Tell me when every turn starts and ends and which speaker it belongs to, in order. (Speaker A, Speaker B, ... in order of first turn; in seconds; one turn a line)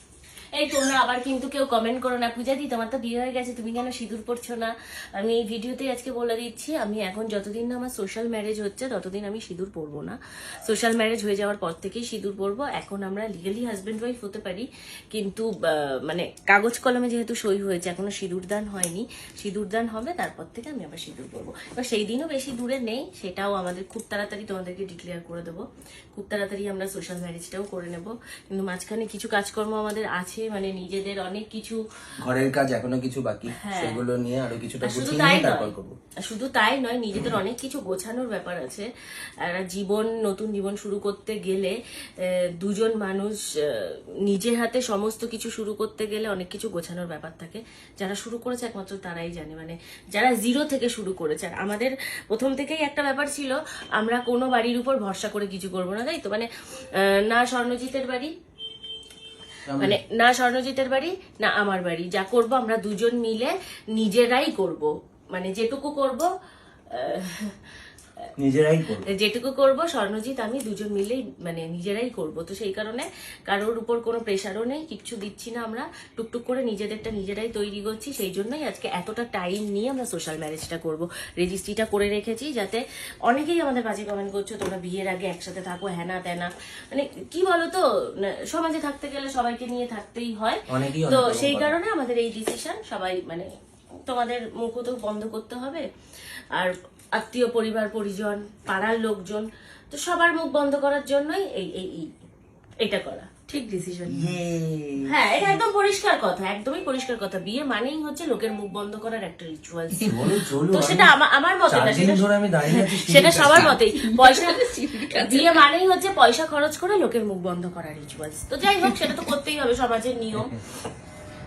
Speaker A: 0.6-25.6
Speaker A: 26.1-31.8
Speaker B: 32.2-35.9
Speaker A: 33.6-34.0
Speaker A: 34.8-35.7
Speaker A: 36.2-38.9
Speaker A: 39.4-56.5
Speaker A: 57.0-58.3
Speaker B: 59.6-60.0
Speaker A: 59.8-66.3
Speaker A: 66.9-67.5
Speaker B: 68.4-69.1
Speaker A: 69.0-93.5
Speaker B: 90.7-91.7
Speaker A: 94.0-95.8
Speaker A: 96.5-102.1
Speaker A: 102.8-103.3
Speaker C: 103.5-104.4
Speaker B: 104.1-105.1
Speaker A: 105.1-120.6
Speaker B: 110.0-111.1
Speaker B: 111.7-113.8
Speaker C: 112.7-115.6
Speaker C: 118.8-119.2